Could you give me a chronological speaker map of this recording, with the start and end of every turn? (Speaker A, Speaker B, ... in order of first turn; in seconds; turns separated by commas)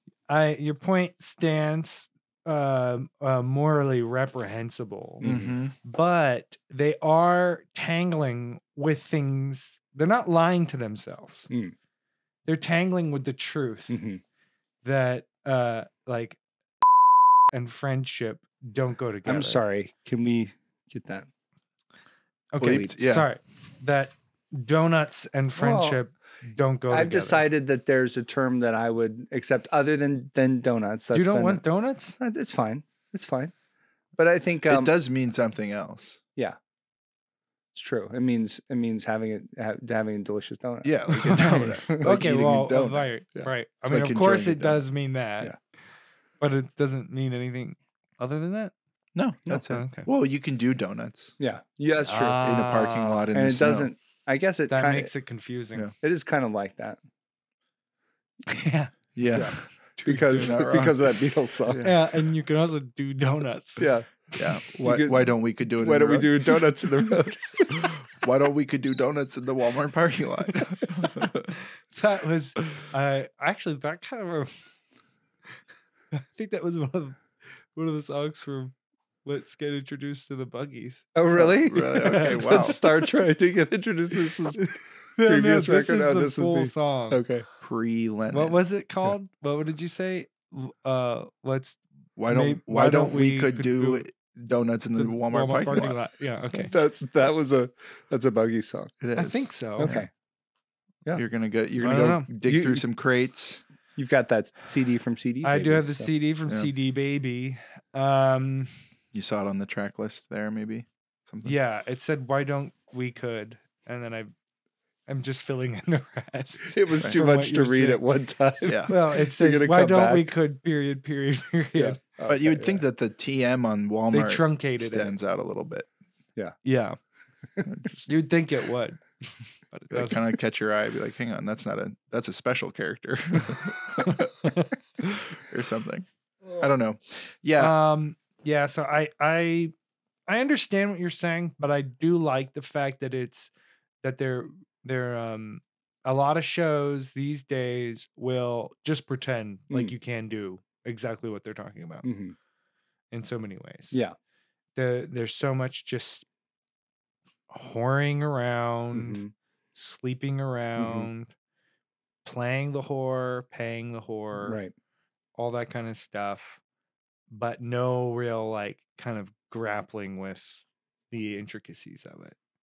Speaker A: 0.3-5.3, Speaker B: 5.2-5.6, Speaker C: 5.2-5.8, Speaker A: 5.8-11.5, Speaker B: 11.5-11.8, Speaker A: 12.5-14.0, Speaker B: 13.9-14.2, Speaker A: 14.8-16.4, Speaker A: 17.5-19.6, Speaker B: 19.3-21.3, Speaker A: 22.5-27.4, Speaker C: 22.6-23.3, Speaker B: 25.6-26.0, Speaker B: 26.9-31.6, Speaker A: 31.1-32.2, Speaker B: 32.2-33.5, Speaker B: 34.2-34.9, Speaker C: 34.7-36.2, Speaker B: 37.7-41.0, Speaker C: 40.8-43.1, Speaker A: 41.1-45.5, Speaker C: 43.9-44.8, Speaker A: 46.4-48.7, Speaker C: 49.1-51.3, Speaker A: 49.6-50.1, Speaker B: 51.4-52.4, Speaker A: 52.0-53.3, Speaker C: 52.4-53.9, Speaker B: 53.3-55.1, Speaker A: 54.7-55.9, Speaker B: 56.0-57.0, Speaker A: 58.5-60.6, Speaker C: 59.2-59.6, Speaker B: 59.3-61.9, Speaker C: 60.3-61.1, Speaker C: 61.7-61.9, Speaker A: 61.8-63.9, Speaker B: 63.8-64.1, Speaker C: 64.4-66.4, Speaker B: 64.7-67.9, Speaker C: 68.1-71.5, Speaker A: 71.9-74.6, Speaker A: 76.1-78.7, Speaker A: 79.2-81.2, Speaker B: 81.2-84.7, Speaker C: 81.3-82.8, Speaker A: 82.0-82.8, Speaker A: 84.6-87.2, Speaker B: 85.2-87.5, Speaker C: 87.6-88.6, Speaker A: 88.3-94.1, Speaker C: 92.2-96.0, Speaker A: 95.0-96.7, Speaker B: 96.5-98.9, Speaker C: 99.0-100.1, Speaker A: 99.2-99.9, Speaker B: 99.8-100.1, Speaker C: 101.1-103.6, Speaker A: 101.8-102.3, Speaker B: 102.4-102.8, Speaker B: 104.0-106.1, Speaker A: 105.4-108.7, Speaker C: 109.1-111.6, Speaker A: 111.5-114.3, Speaker A: 115.1-118.0, Speaker B: 116.7-120.3, Speaker C: 118.7-118.9, Speaker A: 118.9-122.0, Speaker B: 121.8-122.8, Speaker C: 122.3-125.9, Speaker A: 124.1-125.1, Speaker A: 126.7-127.0, Speaker C: 127.7-128.1, Speaker A: 128.1-130.3, Speaker C: 129.9-136.1, Speaker A: 134.0-134.7, Speaker C: 136.6-137.8, Speaker A: 137.6-139.7, Speaker A: 140.3-143.5, Speaker A: 144.0-152.1, Speaker B: 152.0-152.3, Speaker A: 153.1-154.0, Speaker A: 154.8-156.2, Speaker A: 157.5-159.2, Speaker B: 158.9-159.3, Speaker A: 159.8-161.3, Speaker B: 160.8-161.1, Speaker A: 162.2-164.6, Speaker B: 164.4-164.7, Speaker A: 165.4-166.6, Speaker A: 167.3-170.6, Speaker A: 171.1-172.4